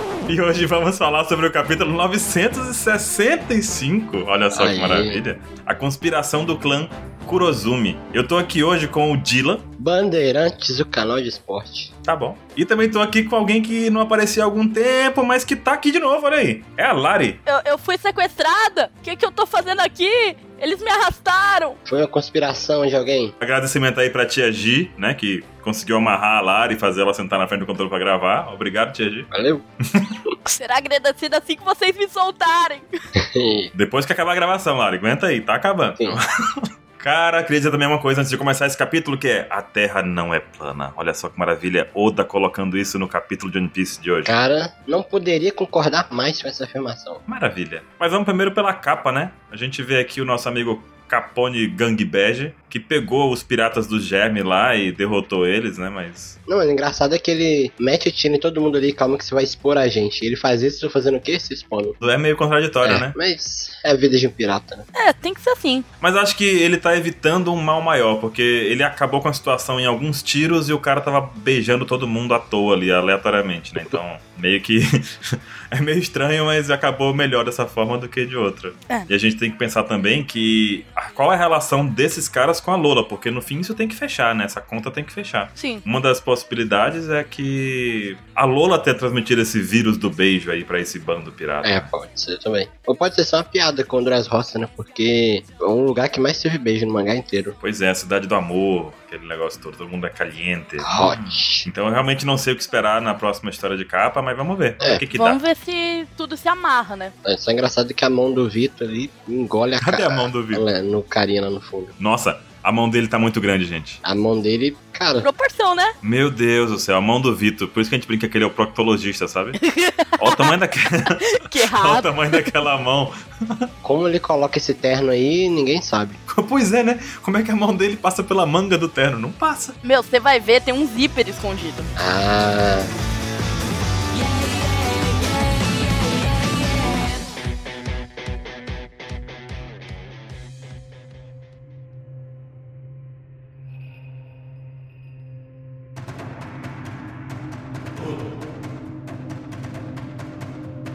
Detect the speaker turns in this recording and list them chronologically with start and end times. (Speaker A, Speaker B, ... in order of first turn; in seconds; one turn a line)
Speaker A: 0.3-9.7
Speaker B: 4.5-5.2
Speaker B: 9.8-11.9
Speaker A: 12.0-17.4
Speaker C: 17.5-21.8
Speaker B: 21.9-23.3
Speaker A: 23.4-29.3
Speaker B: 29.3-29.6
Speaker C: 30.4-32.9
Speaker B: 33.1-33.7
Speaker A: 33.7-44.4
Speaker B: 44.2-47.2
Speaker A: 47.3-56.4
Speaker B: 56.5-62.0
Speaker A: 62.0-63.1
Speaker B: 62.8-64.8
Speaker C: 64.9-65.8
Speaker A: 66.0-91.9
Speaker C: 85.5-85.8
Speaker B: 91.6-97.5
Speaker A: 97.6-105.4
Speaker B: 100.8-101.7
Speaker C: 105.1-107.1
Speaker B: 107.2-111.9
Speaker A: 109.8-110.6
Speaker A: 112.0-114.0
Speaker B: 114.0-115.3
Speaker C: 115.2-115.9
Speaker A: 116.0-119.6
Speaker C: 119.6-120.5
Speaker A: 120.2-123.7
Speaker C: 121.2-122.5
Speaker B: 123.8-126.2
Speaker A: 126.3-129.8
Speaker C: 129.8-131.9
Speaker B: 131.9-132.9
Speaker C: 134.3-137.0